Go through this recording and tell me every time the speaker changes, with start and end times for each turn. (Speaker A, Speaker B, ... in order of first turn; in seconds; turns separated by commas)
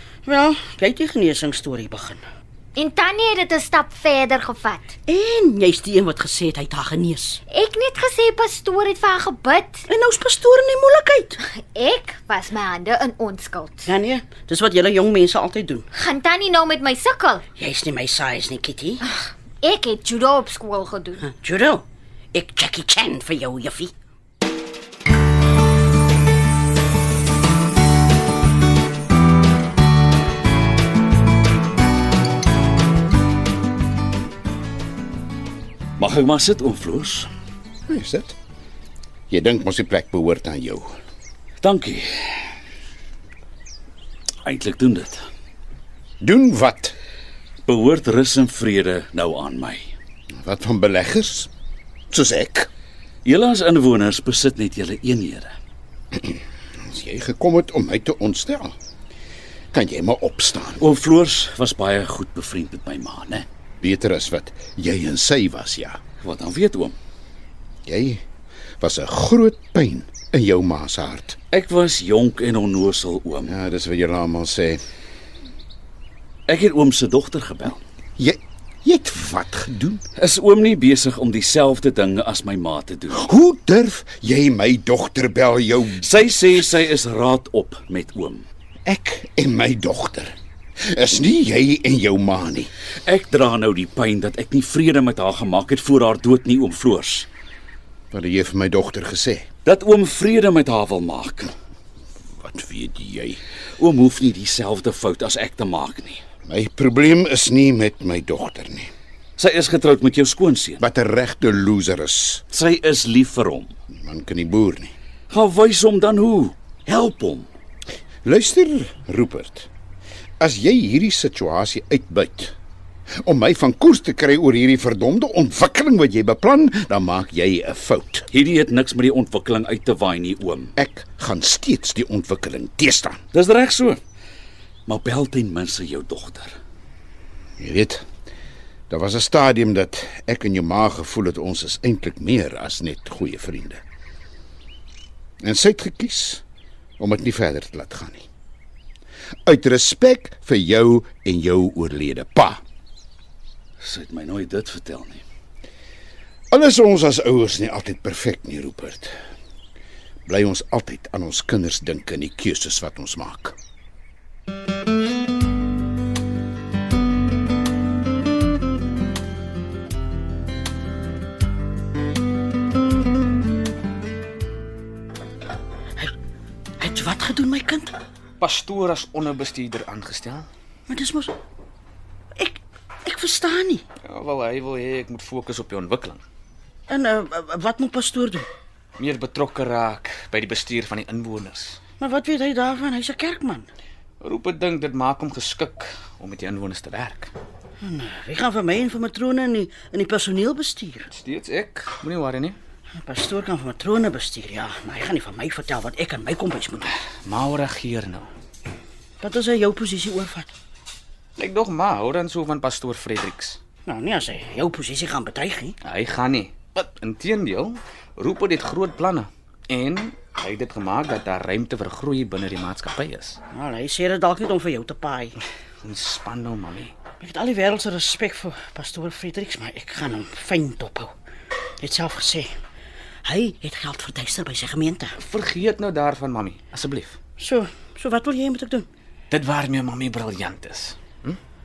Speaker A: 0.2-2.2, Speaker B: 2.7-5.0, Speaker A: 5.1-7.4, Speaker B: 7.5-9.8, Speaker A: 9.9-11.4, Speaker B: 11.4-13.9, Speaker A: 13.8-15.8, Speaker B: 15.9-17.4, Speaker A: 17.6-19.0, Speaker B: 19.1-21.2, Speaker A: 21.2-23.9, Speaker C: 36.0-37.3, Speaker D: 37.9-38.3, Speaker D: 39.3-40.9, Speaker C: 41.6-42.0, Speaker C: 44.4-45.2, Speaker D: 46.2-47.0, Speaker C: 47.6-49.9, Speaker D: 50.4-51.5, Speaker D: 52.1-52.7, Speaker C: 53.2-55.5, Speaker D: 56.2-58.7, Speaker D: 59.7-60.8, Speaker C: 60.8-63.5, Speaker D: 63.8-66.0, Speaker C: 66.2-66.9, Speaker D: 67.8-68.2, Speaker D: 68.8-71.4, Speaker C: 71.5-73.5, Speaker D: 73.4-74.8, Speaker C: 76.5-77.8, Speaker D: 78.2-80.0, Speaker C: 80.2-83.2, Speaker D: 83.1-86.1, Speaker C: 86.0-88.5, Speaker D: 88.8-90.3, Speaker D: 90.8-92.7, Speaker C: 93.0-97.3, Speaker D: 98.1-99.4, Speaker C: 99.7-101.5, Speaker D: 102.4-103.4, Speaker C: 103.8-106.2, Speaker D: 106.5-108.9, Speaker C: 109.4-110.8, Speaker D: 110.8-112.4, Speaker C: 112.5-113.7, Speaker D: 113.9-114.9, Speaker C: 115.3-117.5, Speaker D: 118.2-119.7, Speaker D: 120.4-122.5, Speaker D: 123.2-128.3, Speaker C: 128.3-130.7, Speaker D: 130.8-133.2, Speaker C: 133.3-134.0, Speaker C: 134.9-136.6, Speaker D: 137.6-138.0, Speaker D: 138.9-143.8, Speaker D: 145.4-146.4, Speaker D: 147.0-148.3, Speaker D: 149.4-152.6, Speaker C: 153.8-155.2, Speaker D: 156.5-159.1, Speaker D: 160.3-163.5, Speaker A: 176.8-177.9, Speaker E: 178.4-180.5, Speaker A: 180.9-181.3, Speaker A: 182.4-183.8, Speaker E: 184.0-186.2, Speaker A: 186.9-188.4, Speaker E: 189.0-191.8, Speaker A: 192.0-193.7, Speaker E: 194.2-197.3, Speaker A: 197.8-201.1, Speaker E: 201.1-202.6, Speaker A: 203.0-206.9, Speaker E: 207.2-208.3, Speaker A: 209.2-210.5, Speaker E: 211.4-213.6, Speaker A: 213.8-215.7, Speaker E: 215.8-223.4, Speaker A: 223.5-225.3, Speaker E: 225.8-226.9, Speaker A: 227.2-231.1, Speaker A: 231.8-232.5, Speaker A: 233.2-235.1, Speaker E: 235.2-237.2, Speaker A: 237.4-238.9, Speaker E: 239.3-241.4